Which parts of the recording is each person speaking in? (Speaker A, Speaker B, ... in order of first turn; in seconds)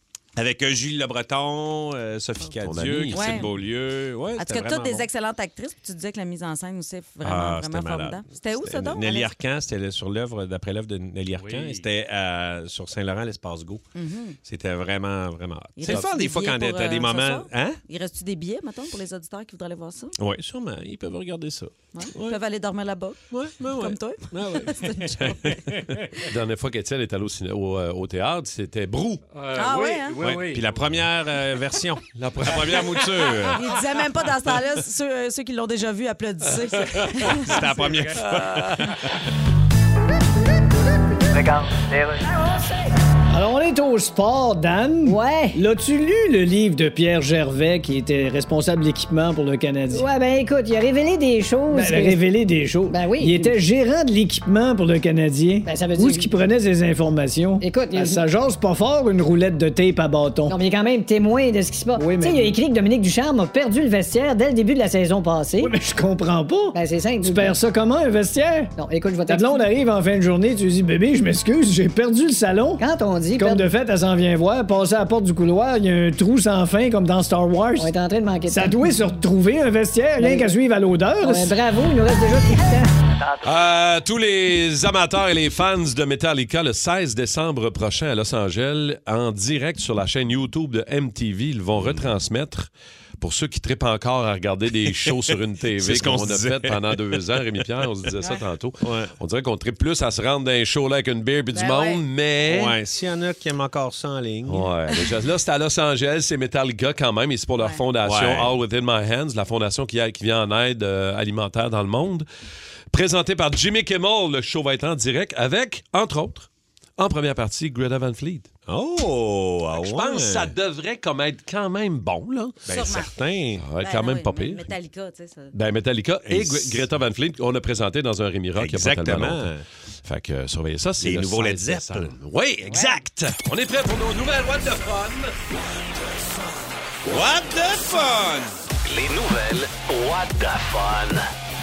Speaker A: 0.3-5.0, 7.2-13.8, 14.4-17.8, 20.2-22.4, 23.3-25.9, 30.2-33.6, 37.4-39.1, 95.8-97.8, 98.8-99.1, 102.5-104.7, 108.0-108.5, 118.7-120.5, 122.7-123.6, 126.2-126.8, 128.6-129.6, 131.0-132.1, 137.1-138.6
Speaker B: 2.4-3.4, 26.3-29.2, 32.1-33.0, 38.1-38.8, 83.4-102.7, 104.5-112.2, 112.9-118.5, 119.8-122.6, 123.5-124.7, 125.5-129.5, 130.0-135.3
Speaker C: 3.1-3.5, 4.4-9.3, 13.9-14.4, 15.8-20.1, 21.9-23.2, 23.7-25.3, 29.5-30.2, 33.5-37.5, 101.5-102.0, 122.7-123.1, 123.8-125.5
Speaker D: 11.3-11.8, 29.3-30.8, 37.7-38.2
Speaker E: 43.3-50.1, 51.7-60.6, 62.0-62.6, 65.6-68.7, 69.3-77.9, 78.5-81.6
Speaker F: 45.0-45.6, 49.9-52.2, 52.9-53.5, 55.6-56.3, 57.6-58.2, 60.5-65.7, 66.7-67.6, 68.8-69.6, 72.8-73.7, 77.8-78.9, 80.2-80.5, 81.2-82.9
Speaker G: 138.8-141.2